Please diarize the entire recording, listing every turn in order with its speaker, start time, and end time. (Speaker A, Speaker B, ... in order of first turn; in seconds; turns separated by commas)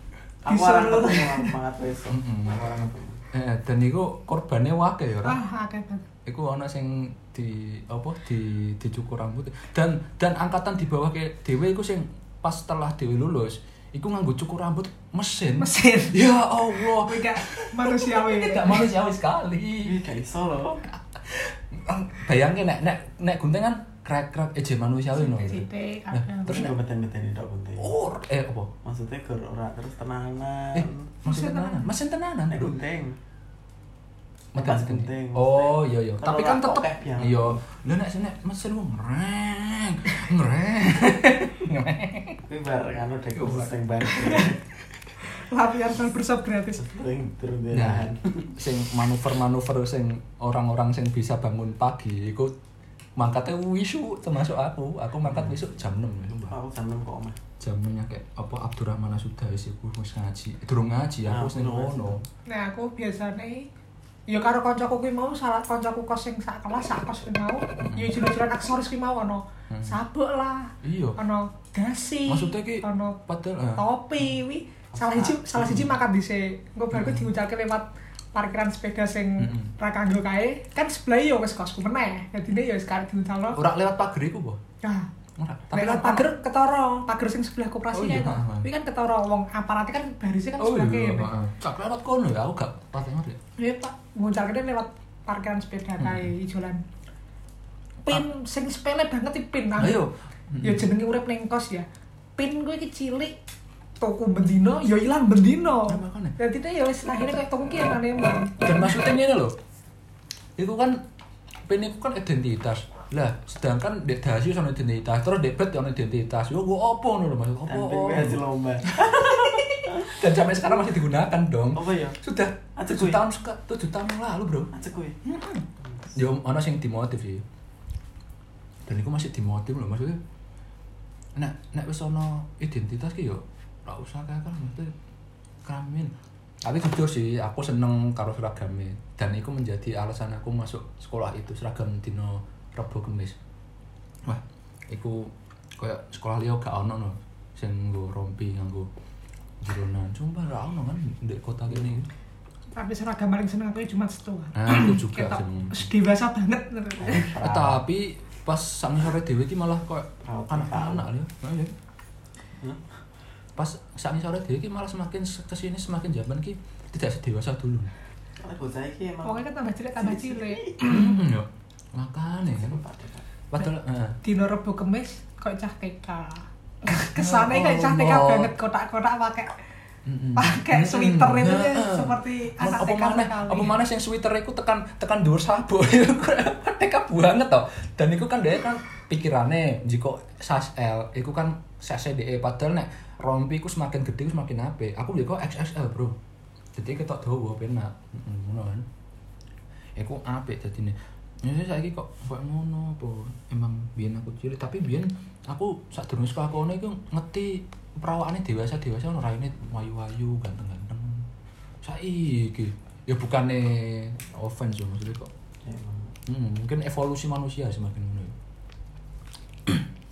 Speaker A: 0.4-3.2, Speaker B: 0.5-1.6, Speaker C: 2.1-5.4, Speaker B: 5.2-6.1, Speaker C: 6.2-20.0, Speaker B: 15.6-16.2, Speaker B: 16.9-18.9, Speaker A: 19.8-20.8, Speaker C: 20.9-26.7, Speaker B: 25.1-26.7, Speaker A: 26.4-27.9, Speaker C: 27.8-28.7, Speaker A: 28.8-31.1, Speaker C: 30.7-32.8, Speaker B: 31.2-31.9, Speaker A: 32.5-33.2, Speaker C: 34.5-42.4, Speaker A: 34.6-37.6, Speaker A: 42.5-44.6, Speaker C: 43.4-43.7, Speaker B: 44.0-44.5, Speaker B: 45.3-46.9, Speaker A: 46.8-48.5, Speaker C: 47.7-52.5, Speaker C: 53.2-56.5, Speaker A: 55.3-55.6, Speaker A: 56.5-57.4, Speaker C: 57.6-62.2, Speaker A: 61.2-62.2, Speaker B: 62.5-63.7, Speaker B: 64.3-73.2, Speaker C: 67.8-68.1, Speaker C: 69.7-70.0, Speaker C: 70.8-71.2, Speaker C: 72.3-73.8, Speaker B: 73.8-83.6, Speaker A: 74.9-75.8, Speaker C: 75.5-75.9, Speaker C: 76.9-77.3, Speaker C: 79.4-79.7, Speaker C: 83.5-84.6, Speaker B: 84.8-85.1, Speaker C: 85.4-86.3, Speaker B: 85.7-91.3, Speaker C: 87.9-88.7, Speaker C: 90.6-93.4, Speaker B: 93.6-96.8, Speaker C: 96.0-96.3, Speaker B: 98.0-100.0, Speaker C: 99.8-100.8, Speaker B: 100.6-103.3, Speaker B: 104.0-108.9, Speaker C: 105.9-106.3, Speaker C: 108.6-109.5, Speaker C: 110.6-111.0, Speaker C: 111.7-124.7, Speaker A: 117.7-120.1, Speaker A: 121.7-122.2, Speaker A: 122.8-123.2, Speaker A: 124.7-125.2, Speaker C: 125.2-127.4, Speaker C: 128.9-130.2, Speaker C: 131.3-134.9, Speaker C: 135.6-136.1, Speaker C: 136.6-143.3, Speaker C: 144.2-148.9, Speaker C: 149.6-152.1, Speaker A: 151.7-152.0, Speaker B: 152.7-157.3, Speaker C: 154.5-155.9, Speaker A: 157.0-157.8, Speaker C: 157.1-161.7, Speaker A: 160.2-161.1, Speaker C: 163.6-167.9, Speaker A: 168.4-169.4, Speaker B: 169.2-171.2, Speaker A: 170.0-170.8, Speaker C: 170.8-172.8, Speaker A: 172.5-173.2, Speaker C: 173.5-174.2, Speaker B: 174.2-179.5, Speaker C: 177.1-178.5, Speaker C: 180.1-196.2, Speaker B: 180.3-183.8, Speaker C: 196.8-198.9, Speaker C: 200.0-211.3, Speaker C: 211.8-215.3, Speaker A: 215.6-216.1, Speaker C: 216.3-218.3